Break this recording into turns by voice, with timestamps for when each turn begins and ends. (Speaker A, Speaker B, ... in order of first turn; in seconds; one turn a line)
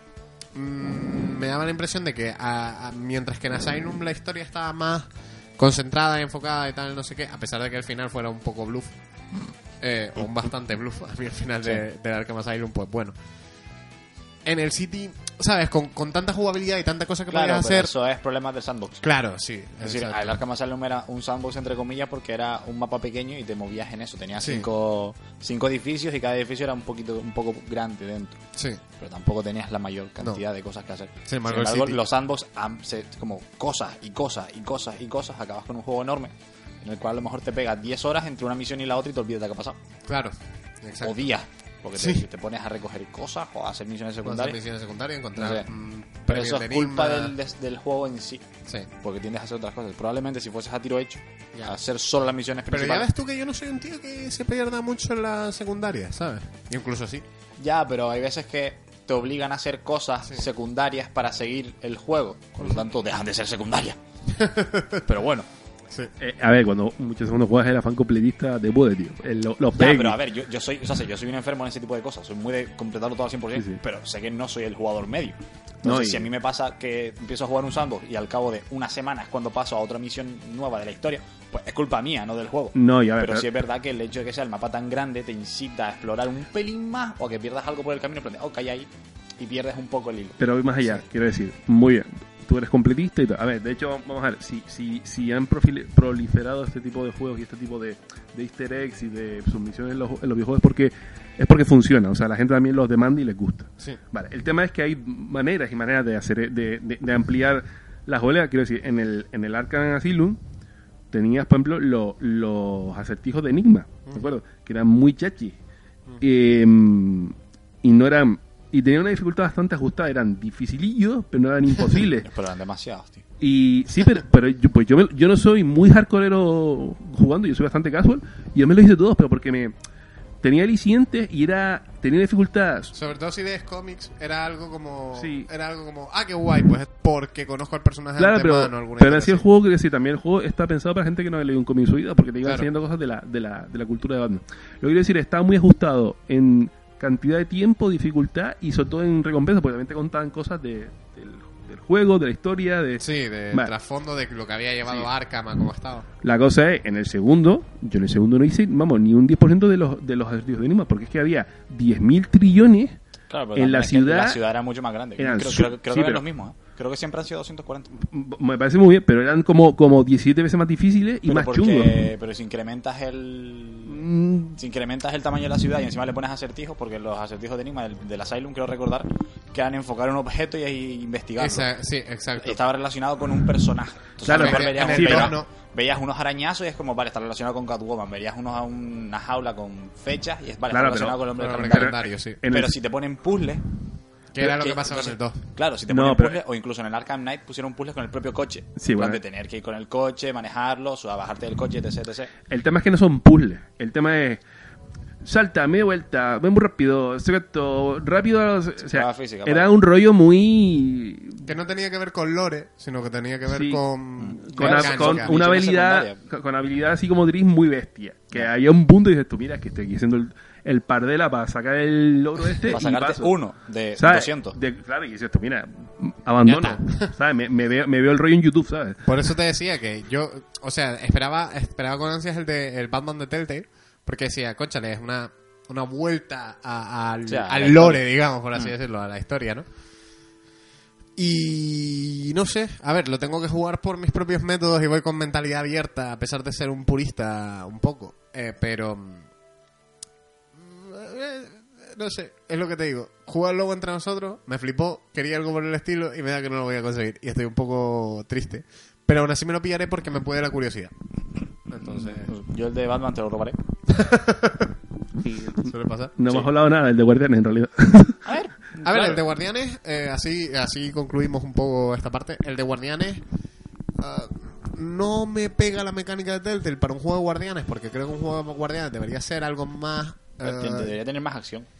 Speaker A: 0.5-8.9
Speaker A: 9.8-13.1
Speaker A: 14.4-17.9
Speaker B: 17.3-19.0
Speaker A: 19.0-20.4
Speaker B: 19.8-28.4
Speaker A: 24.4-24.7
Speaker B: 29.0-39.8
Speaker A: 31.3-32.0
Speaker A: 40.1-41.3
Speaker B: 41.0-44.6
Speaker A: 42.0-42.2
Speaker A: 44.2-47.3
Speaker B: 45.4-45.7
Speaker B: 46.3-48.5
Speaker B: 49.0-53.1
Speaker A: 52.7-57.2
Speaker B: 57.6-64.0
Speaker A: 64.3-65.0
Speaker B: 65.0-65.5
Speaker C: 66.2-70.2
Speaker B: 69.7-90.4
Speaker C: 75.8-76.3
Speaker C: 82.7-83.5
Speaker C: 90.4-110.4
Speaker C: 111.1-115.6
Speaker C: 116.2-122.3
Speaker B: 122.2-123.2
Speaker C: 123.4-129.7
Speaker C: 130.4-132.9
Speaker A: 132.9-139.4
Speaker C: 135.2-135.5
Speaker C: 138.2-153.7
Speaker A: 153.0-156.1
Speaker C: 156.2-163.0
Speaker B: 163.3-167.9
Speaker C: 163.5-164.4
Speaker C: 165.2-166.2
Speaker C: 168.0-172.1
Speaker B: 171.3-174.0
Speaker C: 173.8-174.6
Speaker B: 174.6-181.7
Speaker A: 181.4-182.6
Speaker B: 182.4-193.6
Speaker C: 184.2-185.3
Speaker A: 184.3-185.5
Speaker C: 190.7-192.8
Speaker A: 191.4-192.4
Speaker A: 194.3-195.4
Speaker B: 194.4-202.3
Speaker C: 195.9-196.4
Speaker C: 198.8-199.2
Speaker C: 202.5-204.4
Speaker C: 205.2-211.5
Speaker B: 208.8-209.7
Speaker A: 211.4-215.3
Speaker C: 213.5-213.8
Speaker B: 214.2-216.2
Speaker C: 214.4-223.3
Speaker B: 222.7-224.6
Speaker C: 223.9-229.1
Speaker A: 226.4-227.1
Speaker A: 229.1-239.6
Speaker B: 237.3-238.7
Speaker A: 241.2-249.2
Speaker A: 250.6-260.9
Speaker A: 261.7-262.3
Speaker B: 261.8-263.6
Speaker A: 263.9-264.7
Speaker C: 265.2-268.2
Speaker A: 265.6-266.1
Speaker B: 268.2-269.2
Speaker A: 268.8-273.2
Speaker A: 274.0-280.9
Speaker B: 280.4-281.7